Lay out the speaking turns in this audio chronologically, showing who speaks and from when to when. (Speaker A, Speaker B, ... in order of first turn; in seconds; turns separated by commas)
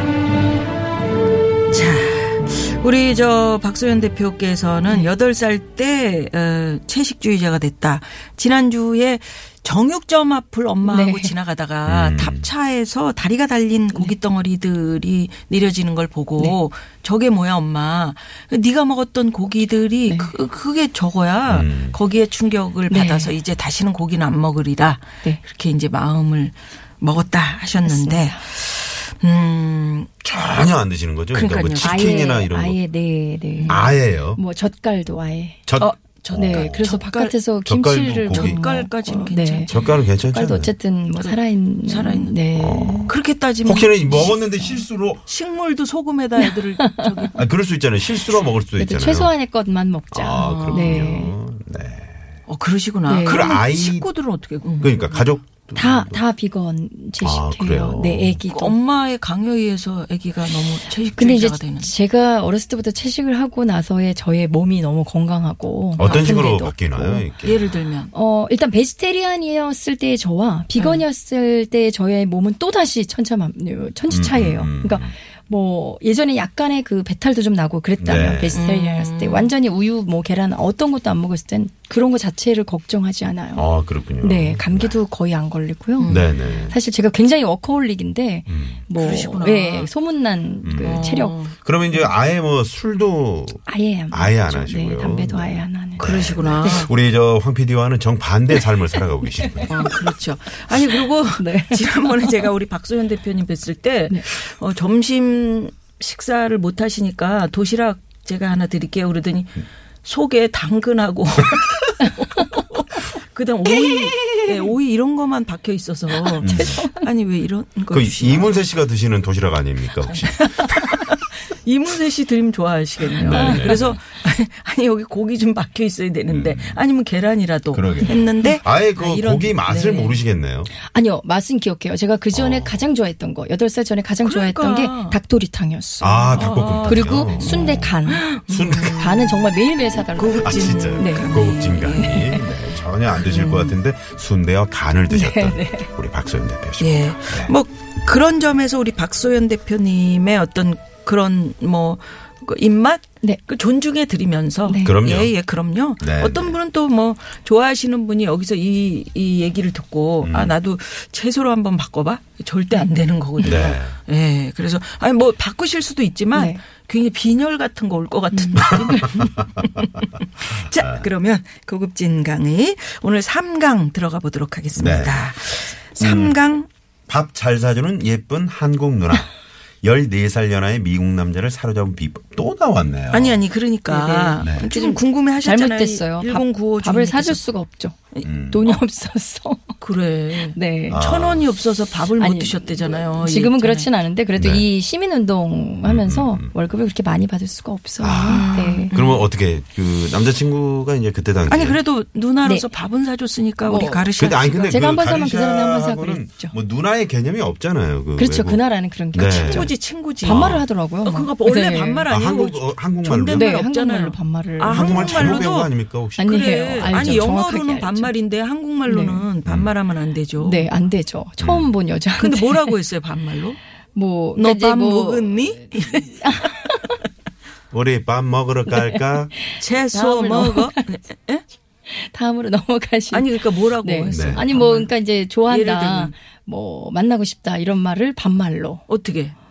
Speaker A: 1.7-30.8, Speaker B: 10.8-11.3, Speaker C: 11.9-12.5, Speaker B: 20.1-20.3, Speaker C: 21.5-22.0, Speaker B: 22.9-23.3, Speaker B: 27.8-28.4, Speaker C: 30.2-32.8, Speaker A: 31.3-32.3, Speaker B: 31.8-35.6, Speaker A: 33.5-33.9, Speaker C: 33.7-34.4, Speaker C: 35.6-36.9, Speaker A: 35.8-37.3, Speaker B: 36.3-43.1, Speaker C: 37.6-38.6, Speaker A: 38.3-40.0, Speaker C: 39.7-40.7, Speaker A: 41.1-42.4, Speaker C: 42.5-45.2, Speaker A: 43.1-44.4, Speaker B: 44.3-44.8, Speaker A: 45.2-47.5, Speaker B: 46.9-47.2, Speaker C: 47.3-49.3, Speaker B: 48.8-51.3, Speaker C: 50.1-52.2, Speaker A: 50.4-51.0, Speaker A: 52.5-55.2, Speaker B: 53.1-53.5, Speaker C: 53.2-54.1, Speaker C: 54.8-56.2, Speaker B: 55.7-58.8, Speaker C: 57.2-58.4, Speaker A: 58.5-61.9, Speaker B: 61.2-67.3, Speaker C: 66.0-67.7, Speaker A: 66.0-66.5, Speaker A: 67.4-68.1, Speaker B: 68.1-83.7, Speaker A: 70.8-71.0, Speaker C: 74.1-75.1, Speaker C: 78.0-78.6, Speaker A: 78.5-79.5, Speaker C: 83.5-85.0, Speaker B: 84.2-91.4, Speaker A: 86.0-86.4, Speaker C: 86.0-86.8, Speaker C: 88.5-88.8, Speaker A: 89.0-89.9, Speaker C: 90.6-91.0, Speaker A: 90.8-91.5, Speaker C: 91.6-99.9, Speaker B: 93.7-96.8, Speaker A: 96.0-96.9, Speaker B: 99.4-99.9, Speaker A: 99.7-118.6, Speaker B: 101.3-102.3, Speaker B: 116.3-117.1, Speaker C: 116.4-116.8, Speaker C: 117.9-120.8, Speaker A: 120.1-130.2, Speaker C: 123.2-124.0, Speaker B: 123.2-123.7, Speaker C: 126.3-126.8, Speaker C: 127.7-130.7, Speaker B: 130.7-138.3, Speaker C: 132.3-132.8, Speaker A: 134.2-135.2, Speaker C: 136.0-139.0, Speaker A: 136.3-139.5, Speaker B: 138.8-141.3, Speaker A: 140.1-142.5, Speaker C: 140.4-147.5, Speaker B: 142.0-142.2, Speaker A: 143.1-143.8, Speaker B: 145.1-145.9, Speaker A: 146.8-176.7, Speaker B: 154.7-154.9, Speaker C: 154.8-155.3, Speaker C: 156.0-156.6, Speaker C: 160.2-160.5, Speaker C: 163.4-164.0, Speaker B: 166.3-166.6, Speaker B: 168.3-169.1, Speaker C: 168.6-171.1, Speaker C: 174.8-175.4, Speaker C: 176.0-176.4, Speaker C: 177.1-179.3, Speaker C: 179.8-183.4, Speaker A: 183.1-187.4, Speaker B: 183.9-189.8, Speaker C: 184.4-184.7, Speaker A: 188.2-188.8, Speaker C: 188.2-188.7, Speaker A: 189.8-193.9, Speaker B: 190.5-191.1, Speaker C: 190.9-191.5, Speaker B: 192.2-198.9, Speaker C: 194.4-194.6, Speaker C: 195.8-196.5, Speaker C: 198.0-201.8, Speaker A: 198.3-199.3, Speaker A: 201.5-204.8, Speaker B: 203.6-204.1, Speaker C: 204.2-210.6, Speaker B: 204.6-206.5, Speaker B: 208.2-212.1, Speaker A: 209.3-220.7, Speaker C: 212.1-213.5, Speaker B: 213.3-215.5, Speaker C: 214.7-217.3, Speaker B: 216.2-218.1, Speaker B: 218.8-219.3, Speaker C: 219.4-219.7, Speaker B: 220.4-222.7, Speaker C: 221.4-221.7, Speaker A: 222.2-223.6, Speaker B: 223.9-226.9, Speaker A: 224.3-226.5, Speaker C: 227.7-229.3, Speaker B: 228.7-230.8, Speaker A: 229.6-231.4, Speaker B: 231.9-238.8, Speaker A: 233.1-236.1, Speaker C: 234.1-234.4, Speaker A: 238.9-239.3